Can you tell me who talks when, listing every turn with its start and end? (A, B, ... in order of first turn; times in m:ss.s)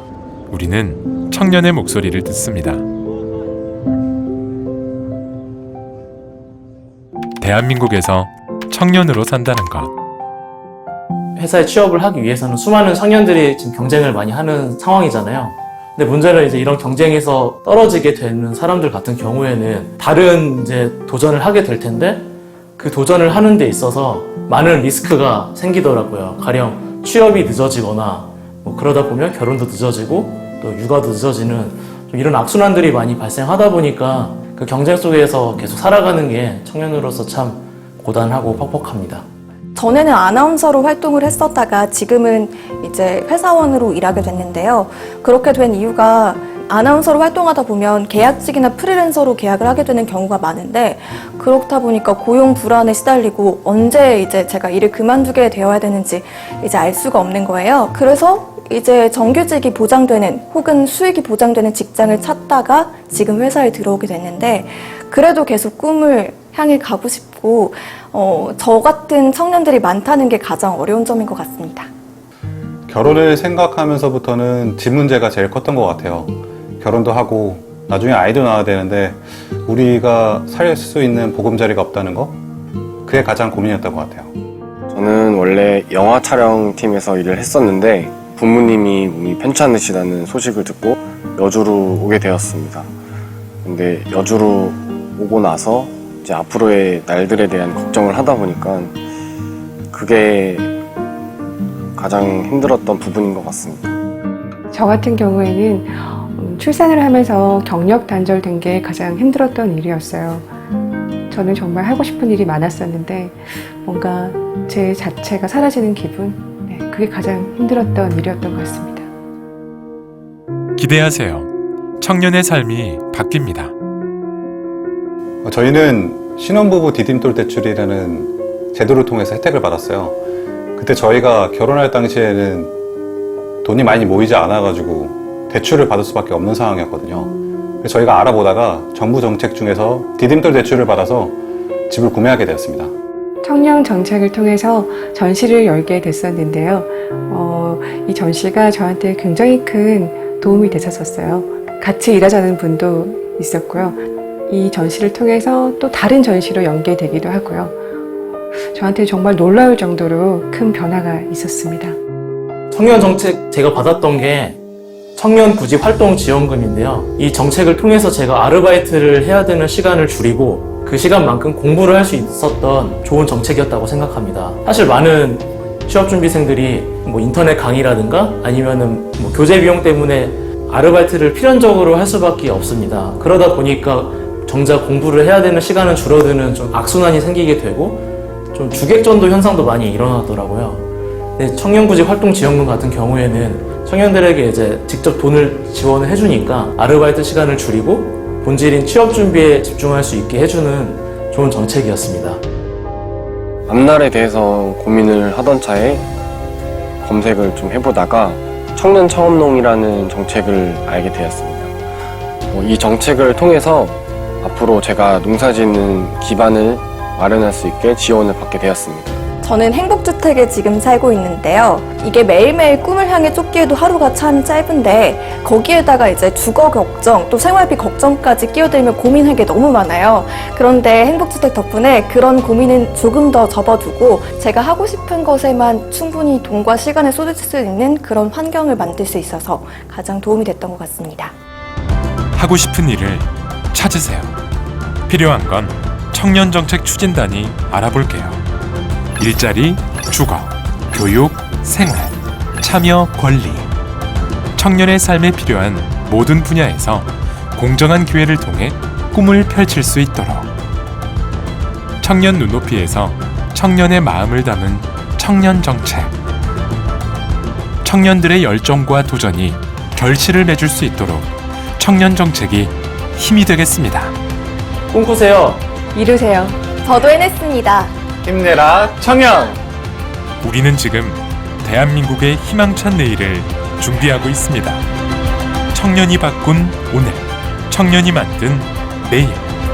0:00.5-0:02.8 A
0:07.4-0:09.9 A
0:11.4-0:39.2 B
0:39.7-1:11.9 C
1:12.9-1:22.4 D
1:23.0-1:24.3 D
1:24.9-1:32.9 E
1:33.6-1:39.0 E
1:39.9-1:40.7 E
1:42.0-1:43.9 E
1:44.7-1:50.5 F
1:51.3-1:59.1 F
2:00.8-2:01.5 A
2:02.0-2:03.7 A
2:05.4-2:10.2 D
2:10.8-2:12.7 D
2:13.6-2:17.3 D
2:17.8-2:22.9 D
2:23.4-2:37.8 F
2:38.5-2:42.0 F
2:42.7-2:44.6 B
2:45.2-3:22.4 B
3:23.7-3:26.0 E
3:27.0-3:31.7 E
3:32.5-3:39.2 E
3:39.4-4:01.3 C
4:02.3-4:04.4 A
4:05.1-4:08.4 A
4:09.2-4:13.7 A
4:14.6-4:20.5 A
4:22.0-4:26.1 A
4:27.8-4:34.1 A
4:34.9-4:35.6 B
4:35.9-4:36.6 F
4:36.8-4:37.9 C
4:38.2-4:39.6 D
4:40.4-4:44.8 A
4:45.7-4:49.5 A